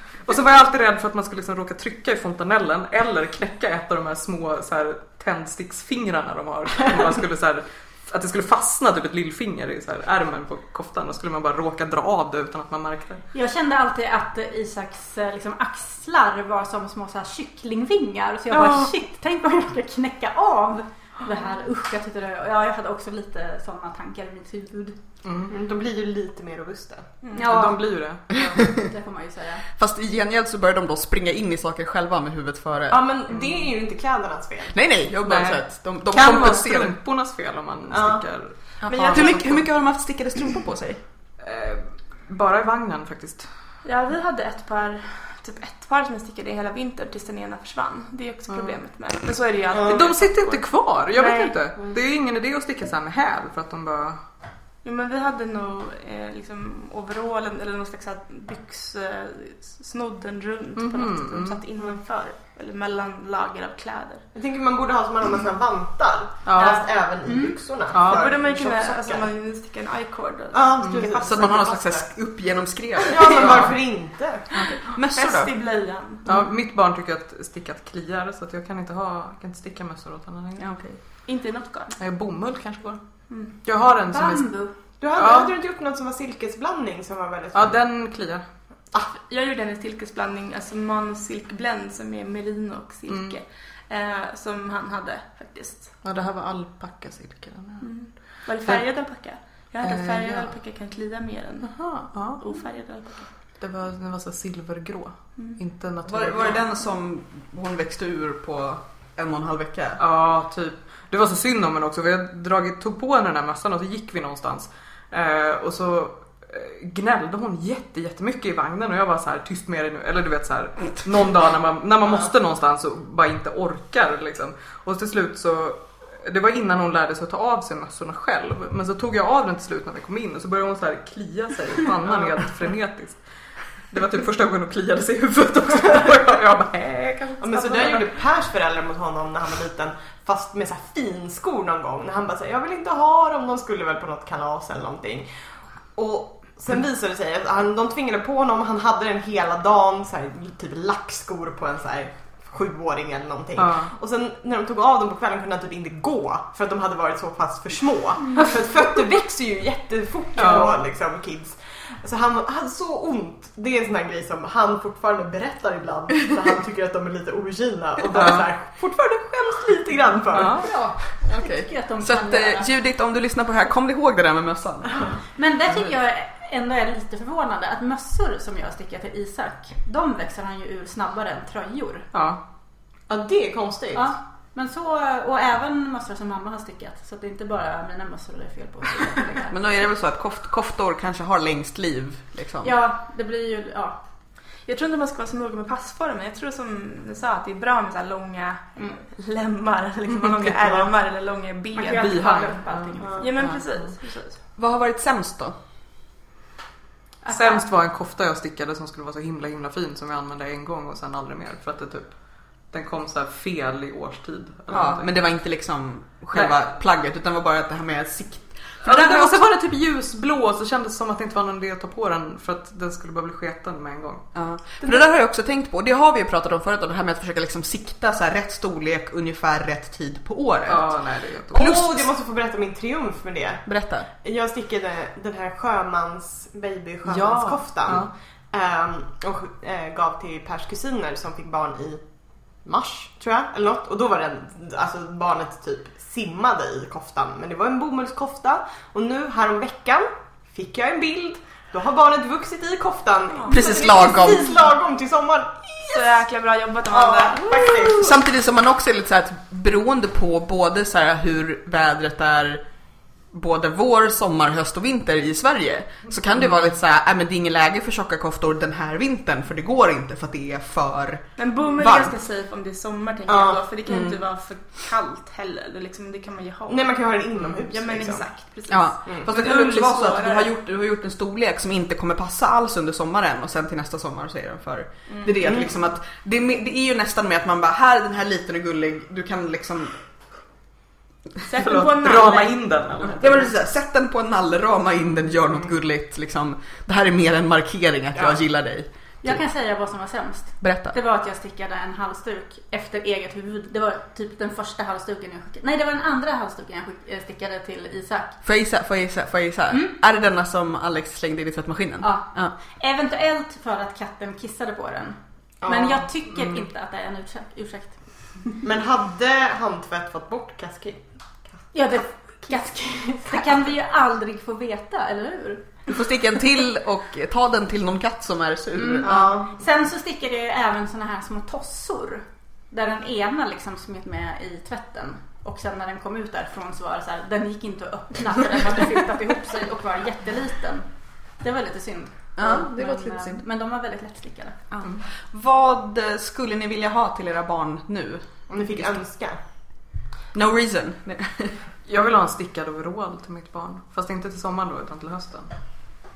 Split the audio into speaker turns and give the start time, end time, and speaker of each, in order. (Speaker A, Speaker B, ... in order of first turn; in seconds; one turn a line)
Speaker A: 0.2-13.2
Speaker B: 13.3-25.0
Speaker A: 18.5-18.9
Speaker A: 25.2-25.5
Speaker C: 25.5-27.1
Speaker D: 27.2-27.5
Speaker B: 27.3-29.6
Speaker A: 27.4-28.4
Speaker E: 29.8-33.0
Speaker C: 32.9-34.8
Speaker E: 34.7-37.0
Speaker A: 35.2-39.6
Speaker C: 37.9-38.2
Speaker E: 38.9-41.0
Speaker D: 38.9-39.5
Speaker A: 41.4-43.5
Speaker D: 43.8-51.6
Speaker A: 48.5-48.8
Speaker C: 49.7-50.0
Speaker A: 49.9-54.2
Speaker D: 54.8-64.2
Speaker A: 60.8-61.6
Speaker C: 64.3-69.2
Speaker A: 66.5-66.8
Speaker D: 66.5-66.9
Speaker B: 67.2-67.6
Speaker A: 67.9-68.3
Speaker D: 68.0-71.7
Speaker C: 70.5-72.1
Speaker E: 71.2-73.7
Speaker C: 73.1-74.5
Speaker A: 73.3-73.7
Speaker E: 74.5-75.5
Speaker D: 75.0-76.3
Speaker A: 76.2-80.7
Speaker E: 80.6-81.0
Speaker D: 81.2-81.9
Speaker A: 82.0-83.0
Speaker D: 83.3-83.5
Speaker A: 83.6-84.5
Speaker B: 84.1-84.7
Speaker C: 85.0-87.8
Speaker A: 85.1-85.5
Speaker A: 87.5-88.4
Speaker D: 89.1-96.0
Speaker A: 93.1-93.4
Speaker A: 96.0-98.8
Speaker D: 97.8-103.3
Speaker A: 99.6-100.5
Speaker A: 101.6-102.4
Speaker A: 103.6-106.6
Speaker E: 106.0-110.0
Speaker A: 110.0-133.2
Speaker A: 133.8-138.0
Speaker C: 137.4-145.3
Speaker C: 145.9-170.8
Speaker A: 153.6-153.9
Speaker A: 160.3-160.8
Speaker A: 168.1-168.5
Speaker A: 170.3-170.7
Speaker B: 170.6-172.7
Speaker E: 171.2-174.9
Speaker B: 175.3-182.1
Speaker A: 182.1-182.4
Speaker C: 183.1-184.1
Speaker B: 183.9-189.5
Speaker E: 189.5-192.7
Speaker B: 192.6-194.0
Speaker D: 194.6-202.5
Speaker A: 200.1-200.9
Speaker B: 201.7-203.3
Speaker A: 202.0-203.9
Speaker C: 203.0-203.3
Speaker D: 203.2-204.4
Speaker E: 204.6-205.5
Speaker B: 207.2-207.6
Speaker A: 207.3-215.1
Speaker E: 214.7-219.4
Speaker A: 218.8-224.2
Speaker E: 224.3-232.1
Speaker A: 230.7-231.7
Speaker C: 231.5-233.7
Speaker E: 233.7-234.1
Speaker C: 234.2-256.2
Speaker A: 237.1-238.1
Speaker D: 253.3-253.6
Speaker E: 253.5-254.5
Speaker D: 255.9-257.7
Speaker C: 256.9-258.1
Speaker E: 257.9-262.6
Speaker E: 263.3-272.1
Speaker D: 271.4-280.5
Speaker C: 273.3-273.6
Speaker E: 273.9-274.2
Speaker C: 276.7-278.2
Speaker E: 278.7-289.9
Speaker D: 285.1-285.4
Speaker D: 291.4-292.7
Speaker A: 291.6-293.5
Speaker E: 293.2-299.4
Speaker B: 299.2-308.4
Speaker E: 300.6-300.9
Speaker E: 308.4-312.5
Speaker B: 309.7-309.9
Speaker B: 312.0-318.6
Speaker C: 315.6-316.1
Speaker C: 318.6-321.7
Speaker B: 321.7-325.9
Speaker E: 325.9-329.3
Speaker B: 328.8-344.6
Speaker C: 329.0-329.5
Speaker E: 342.4-343.4
Speaker E: 344.7-349.0
Speaker C: 348.5-349.4
Speaker E: 350.3-351.6
Speaker A: 351.8-355.5